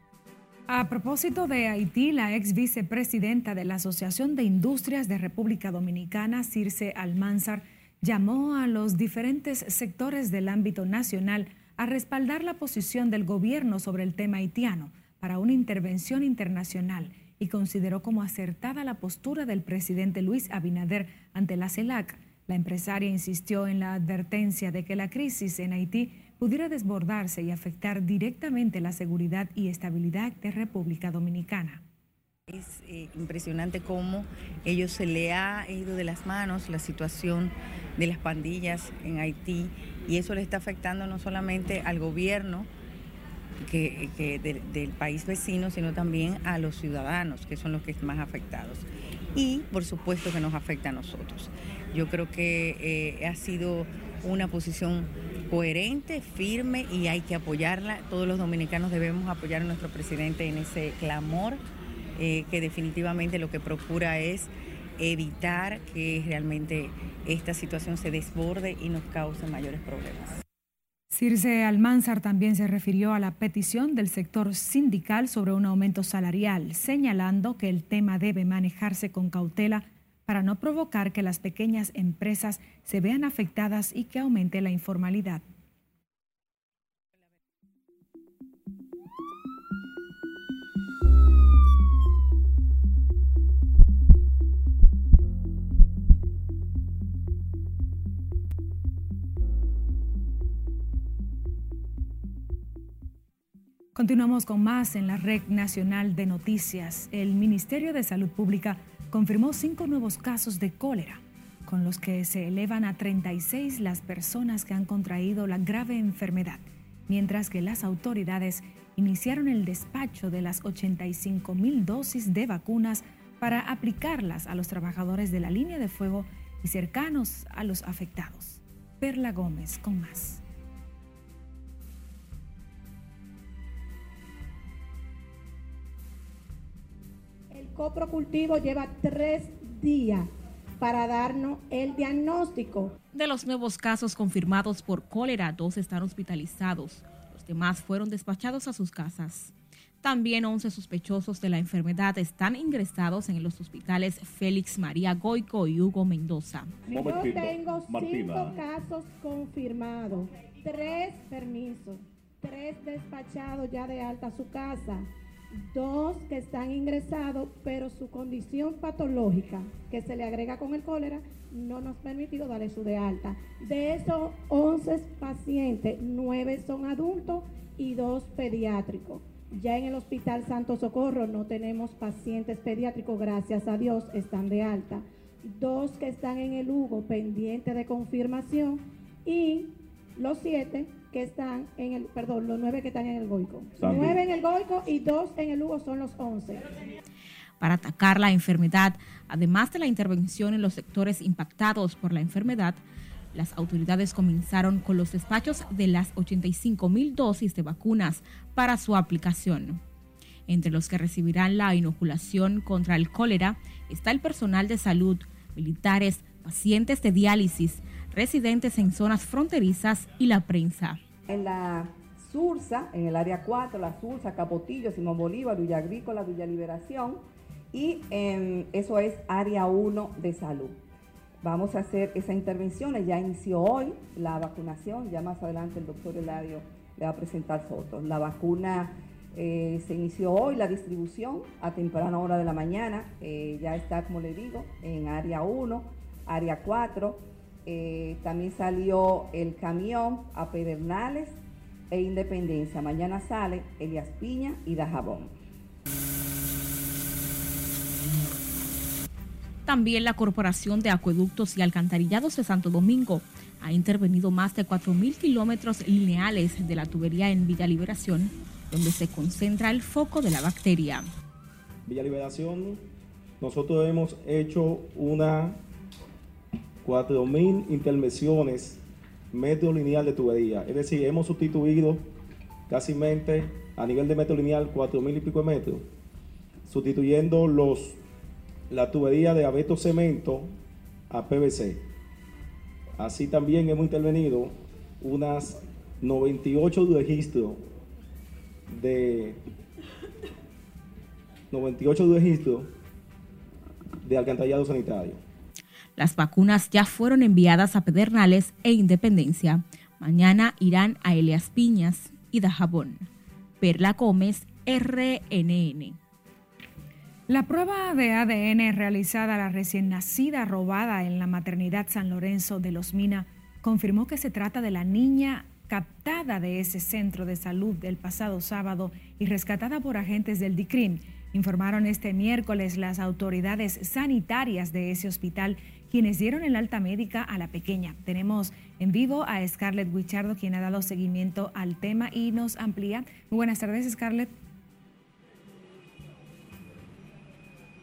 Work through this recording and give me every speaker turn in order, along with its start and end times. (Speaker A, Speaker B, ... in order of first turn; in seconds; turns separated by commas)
Speaker A: 0.7-31.8, Speaker B: 32.5-42.7, Speaker B: 43.6-61.6, Speaker B: 62.2-70.4, Speaker A: 71.1-85.4, Speaker A: 103.9-130.4, Speaker C: 137.5-140.3, Speaker C: 140.8-142.9, Speaker D: 143.1-156.8, Speaker C: 156.9-196.7, Speaker E: 156.9-158.6, Speaker E: 193.8-194.2, Speaker D: 197.6-202.8, Speaker D: 203.3-209.8, Speaker D: 210.5-221.0, Speaker F: 221.3-227.2, Speaker F: 227.7-230.8, Speaker F: 231.4-251.4, Speaker F: 251.9-255.3, Speaker D: 259.6-271.1, Speaker E: 271.9-272.9, Speaker E: 273.4-275.6, Speaker E: 276.8-282.1, Speaker E: 282.7-285.9, Speaker E: 286.6-288.0, Speaker E: 288.7-290.6, Speaker E: 291.1-291.8, Speaker E: 293.0-297.7, Speaker E: 298.7-299.4, Speaker E: 301.5-302.8, Speaker E: 304.0-305.2, Speaker D: 306.0-313.1, Speaker D: 313.6-316.0, Speaker A: 317.3-344.3